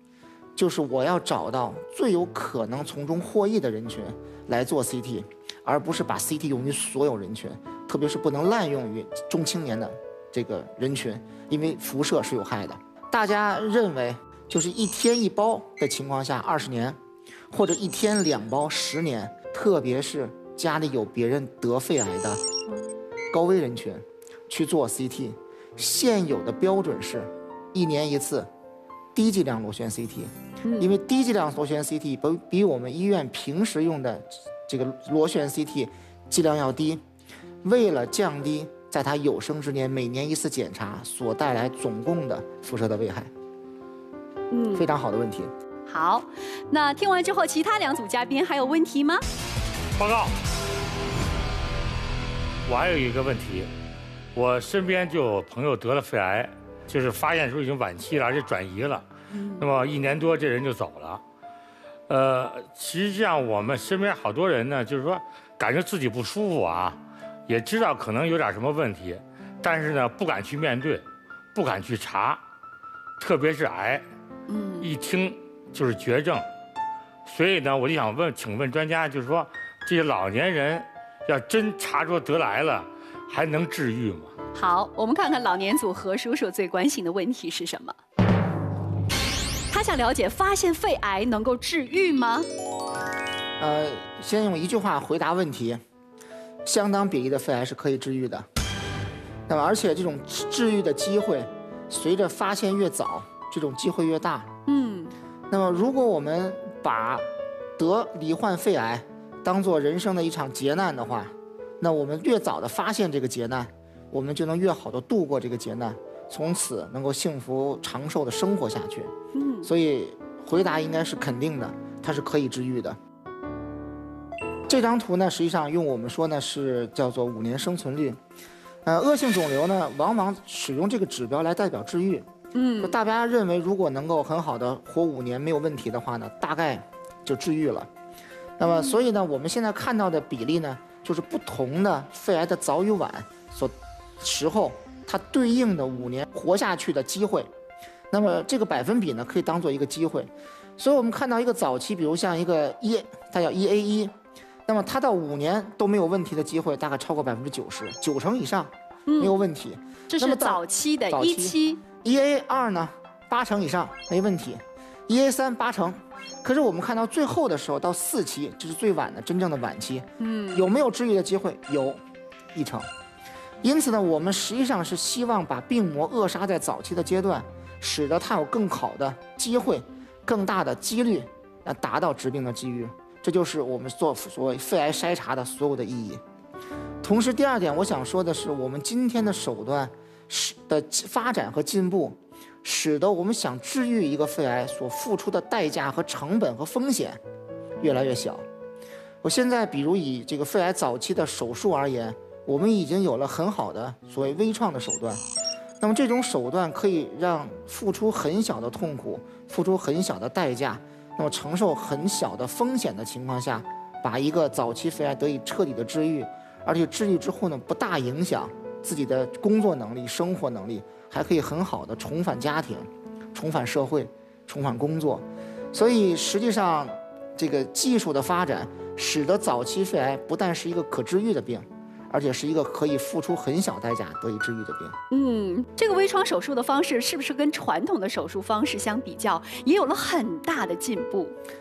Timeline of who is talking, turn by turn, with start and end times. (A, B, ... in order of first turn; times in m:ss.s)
0:00.6-0:17.0 A
0:17.5-0:22.4 A
0:23.3-0:28.5 A
0:29.2-0:37.0 A
0:30.7-0:30.9 B
0:37.6-0:43.3 A
0:44.5-0:44.8 B
0:44.7-0:45.5 A
0:45.9-0:49.2 B
0:50.0-0:50.4 C
0:52.7-0:53.7 C
0:54.4-0:59.1 C
0:59.3-0:59.6 B
0:59.6-1:01.2 C
1:02.1-1:12.4 C
1:13.2-1:14.0 C
1:14.5-1:14.9 B
1:14.8-1:16.5 C
1:17.3-1:24.3 C
1:24.6-1:28.0 B
1:29.7-1:32.5 B
1:33.6-1:35.8 A
1:36.6-1:38.5 A
1:39.5-1:44.5 A
1:44.7-1:45.1 B
1:45.5-1:47.3 A
1:47.8-1:59.1 A
1:59.4-1:59.7 B
1:59.6-2:03.0 A
2:04.7-2:08.2 A
2:08.8-2:12.3 A
2:12.5-2:13.0 B
2:12.8-2:17.9 A
2:18.6-2:27.5 A
2:18.7-2:19.0 B
2:28.1-2:34.1 A
2:34.7-2:52.0 A
2:39.1-2:39.3 B
2:40.1-2:41.8 B
2:50.2-2:50.6 B
2:52.5-2:52.9 A
2:53.6-3:06.2 A
3:07.0-3:17.2 A
3:17.8-3:18.4 A
3:19.2-3:25.2 A
3:25.8-3:55.0 A
3:55.1-4:01.4 B